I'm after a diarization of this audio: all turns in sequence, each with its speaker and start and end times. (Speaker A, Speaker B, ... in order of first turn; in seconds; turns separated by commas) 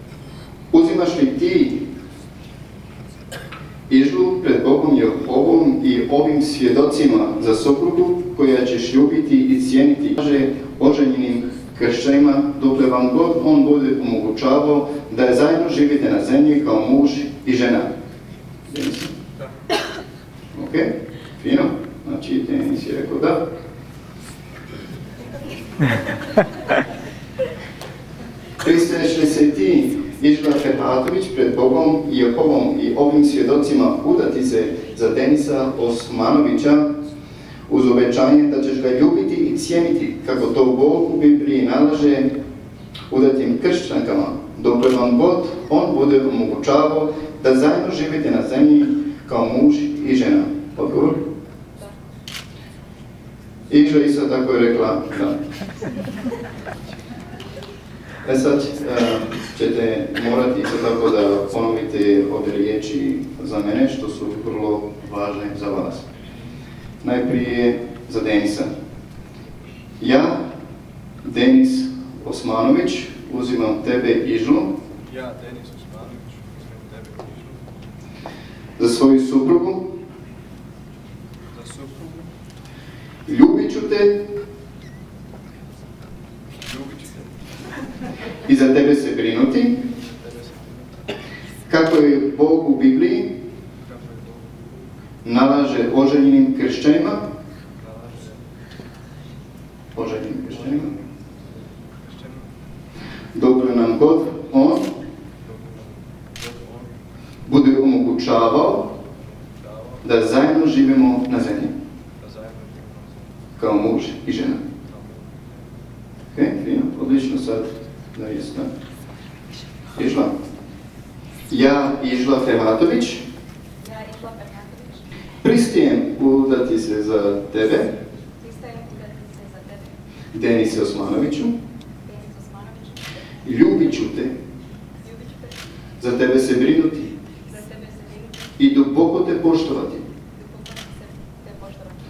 Speaker A: 0.7-1.8, Speaker A: 3.9-17.9, Speaker A: 18.7-19.2, Speaker A: 20.5-23.4, Speaker A: 28.6-36.9, Speaker A: 37.7-42.3, Speaker A: 43.1-51.2, Speaker A: 53.7-55.4, Speaker A: 58.2-66.1, Speaker A: 67.0-68.7, Speaker A: 70.0-70.5, Speaker A: 71.2-74.8, Speaker B: 75.1-77.6, Speaker A: 78.8-80.0, Speaker B: 81.5-82.3, Speaker A: 83.3-84.2, Speaker B: 86.5-87.3, Speaker A: 88.4-89.9, Speaker B: 90.2-91.0, Speaker A: 91.7-93.4, Speaker B: 93.9-94.5, Speaker A: 95.2-97.3, Speaker B: 97.8-98.4, Speaker A: 99.9-100.9, Speaker B: 102.1-102.5, Speaker A: 103.3-105.0, Speaker B: 106.4-106.9, Speaker A: 107.5-108.9, Speaker A: 110.0-111.8, Speaker B: 112.2-113.2, Speaker A: 113.6-114.6, Speaker A: 116.3-118.7, Speaker A: 119.9-120.3, Speaker A: 121.5-123.2, Speaker C: 123.8-125.1, Speaker A: 125.4-128.0, Speaker C: 128.4-129.9, Speaker A: 130.3-131.5, Speaker C: 132.1-133.0, Speaker A: 133.4-134.3, Speaker C: 135.1-135.5, Speaker A: 136.0-137.2, Speaker C: 137.5-138.4, Speaker A: 138.6-140.1, Speaker C: 140.4-142.0